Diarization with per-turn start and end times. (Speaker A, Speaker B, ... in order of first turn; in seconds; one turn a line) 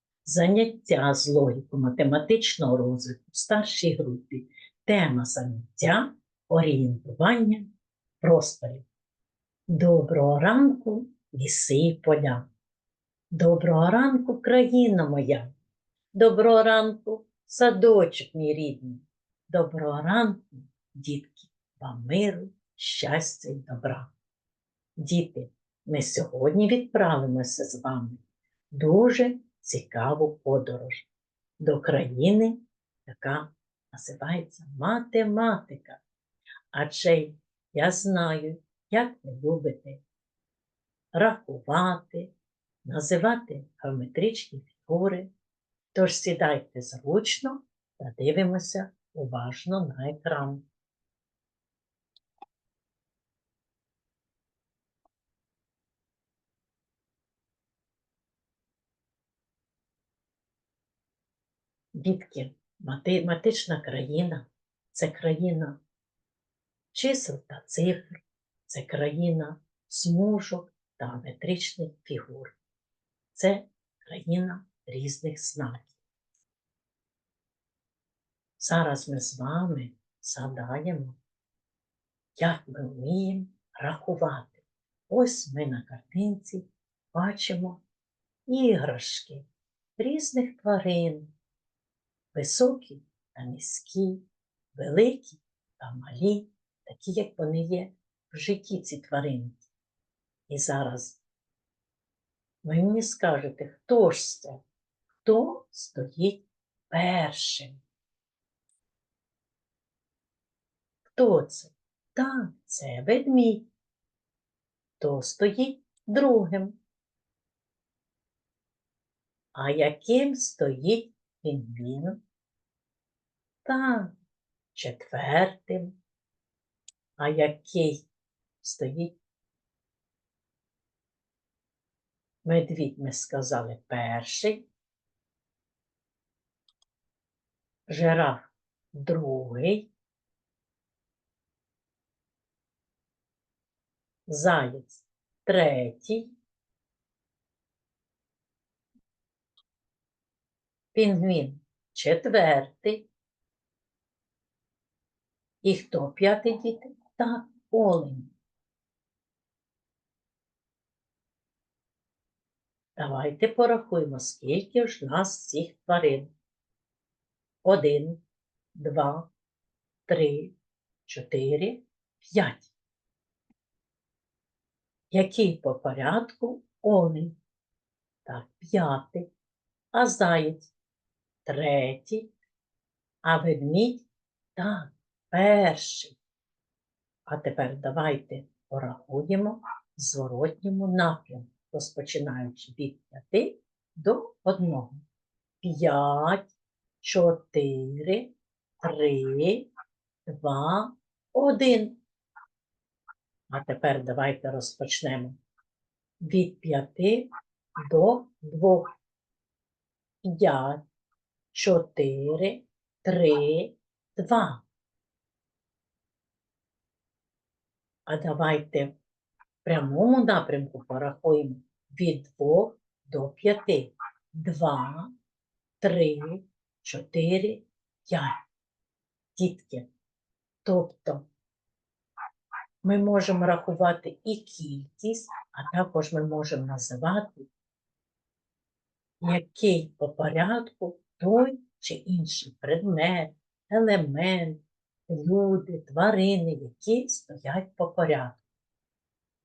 Speaker A: 0.2-7.7
Speaker A: 8.2-8.8
Speaker A: 9.7-12.4
Speaker A: 13.3-15.5
Speaker A: 16.1-24.1
Speaker A: 25.0-31.1
Speaker A: 31.6-36.0
Speaker A: 36.7-40.0
Speaker A: 41.1-42.3
Speaker A: 42.8-45.3
Speaker A: 45.9-50.6
Speaker A: 61.9-65.8
Speaker A: 66.9-72.6
Speaker A: 73.3-75.9
Speaker A: 78.6-81.2
Speaker A: 82.4-87.8
Speaker A: 88.5-89.5
Speaker A: 90.0-91.3
Speaker A: 92.3-99.7
Speaker A: 100.5-101.2
Speaker A: 102.6-104.6
Speaker A: 105.2-107.8
Speaker A: 111.2-113.7
Speaker A: 115.0-116.8
Speaker A: 119.5-122.2
Speaker A: 123.6-124.1
Speaker A: 124.7-125.9
Speaker A: 127.2-128.0
Speaker A: 128.6-129.2
Speaker A: 132.4-134.7
Speaker A: 137.9-139.9
Speaker A: 144.3-146.3
Speaker A: 150.9-153.1
Speaker A: 155.6-158.3
Speaker A: 163.0-166.3
Speaker A: 167.6-168.2
Speaker A: 168.8-169.3
Speaker A: 170.1-170.5
Speaker A: 171.1-172.7
Speaker A: 175.1-177.4
Speaker A: 178.2-179.3
Speaker A: 179.9-180.7
Speaker A: 181.4-182.3
Speaker A: 183.2-186.2
Speaker A: 187.3-195.0
Speaker A: 195.6-196.5
Speaker A: 197.0-198.3
Speaker A: 198.8-199.7
Speaker A: 200.3-202.0
Speaker A: 203.5-205.4
Speaker A: 206.2-208.9
Speaker A: 210.2-210.8
Speaker A: 211.5-214.6
Speaker A: 218.1-218.9
Speaker A: 219.6-225.1
Speaker A: 225.8-228.4
Speaker A: 229.3-229.9
Speaker A: 230.6-231.3
Speaker A: 232.8-237.5
Speaker A: 239.2-248.4